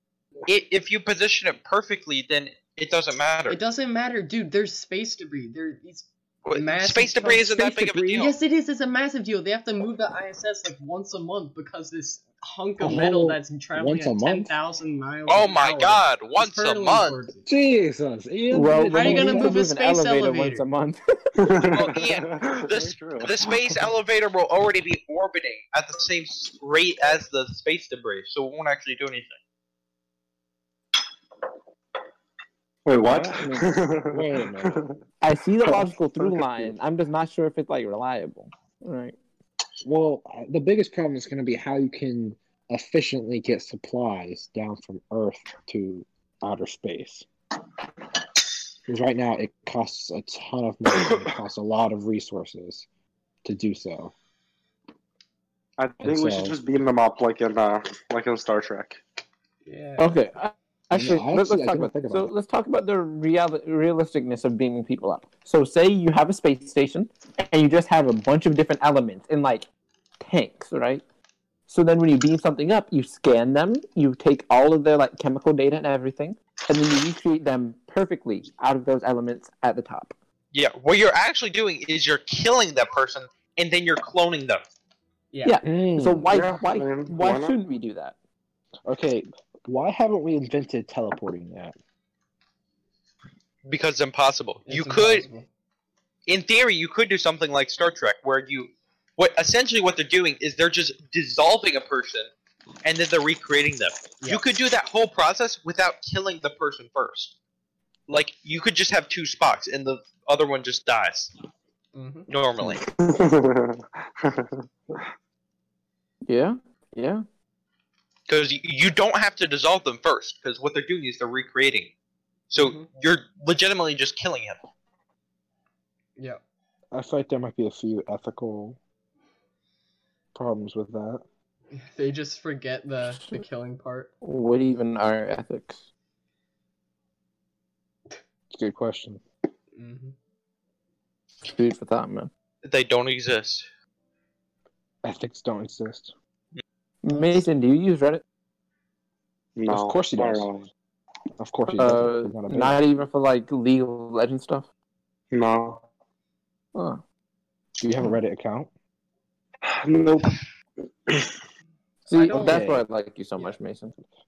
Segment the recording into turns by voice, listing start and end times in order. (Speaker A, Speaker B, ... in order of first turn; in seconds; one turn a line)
Speaker A: 0.5-3.6
Speaker B: 3.5-17.5
Speaker A: 6.5-8.3
Speaker C: 7.7-8.2
Speaker C: 12.8-14.5
Speaker A: 15.3-17.2
Speaker C: 17.5-19.6
Speaker D: 18.5-21.0
Speaker B: 18.9-20.6
Speaker E: 21.4-23.8
Speaker A: 21.7-29.4
Speaker E: 32.9-35.0
Speaker D: 33.1-33.3
Speaker C: 33.1-34.8
Speaker D: 35.2-39.1
Speaker E: 35.6-35.9
Speaker C: 36.2-36.7
Speaker C: 39.8-47.3
Speaker C: 48.9-52.9
Speaker E: 51.0-51.3
Speaker C: 53.4-54.1
Speaker E: 55.8-59.0
Speaker C: 56.0-56.6
Speaker B: 59.6-60.2
Speaker D: 60.0-69.7
Speaker C: 60.9-62.3
Speaker D: 70.2-71.0
Speaker D: 71.7-80.1
Speaker A: 80.5-84.6
Speaker B: 85.3-85.6
Speaker D: 85.4-88.2
Speaker C: 85.6-86.4
Speaker E: 86.3-87.6
Speaker C: 88.9-91.8
Speaker A: 93.7-95.3
Speaker B: 94.7-95.5
Speaker A: 96.3-102.3
Speaker A: 102.8-107.3
Speaker A: 108.1-111.3
Speaker B: 111.9-112.3
Speaker A: 112.3-112.8
Speaker E: 112.6-115.0
Speaker D: 116.3-117.2
Speaker A: 118.3-121.9
Speaker A: 122.5-124.6
Speaker B: 122.5-122.9
Speaker C: 126.9-128.8
Speaker C: 130.3-131.2
Speaker B: 131.7-134.1
Speaker D: 134.2-135.8
Speaker C: 138.5-139.2
Speaker B: 139.8-140.2
Speaker D: 141.4-142.3
Speaker A: 142.6-143.7
Speaker C: 145.0-146.1
Speaker D: 147.0-148.2
Speaker B: 147.1-147.4
Speaker E: 149.6-150.7
Speaker C: 149.7-150.5
Speaker C: 151.4-152.8
Speaker D: 151.8-154.7
Speaker E: 155.3-155.8
Speaker D: 156.8-157.0
Speaker C: 157.8-158.7
Speaker E: 159.6-160.4
Speaker E: 161.1-161.4
Speaker D: 162.1-164.0
Speaker B: 162.1-162.7
Speaker C: 162.3-162.8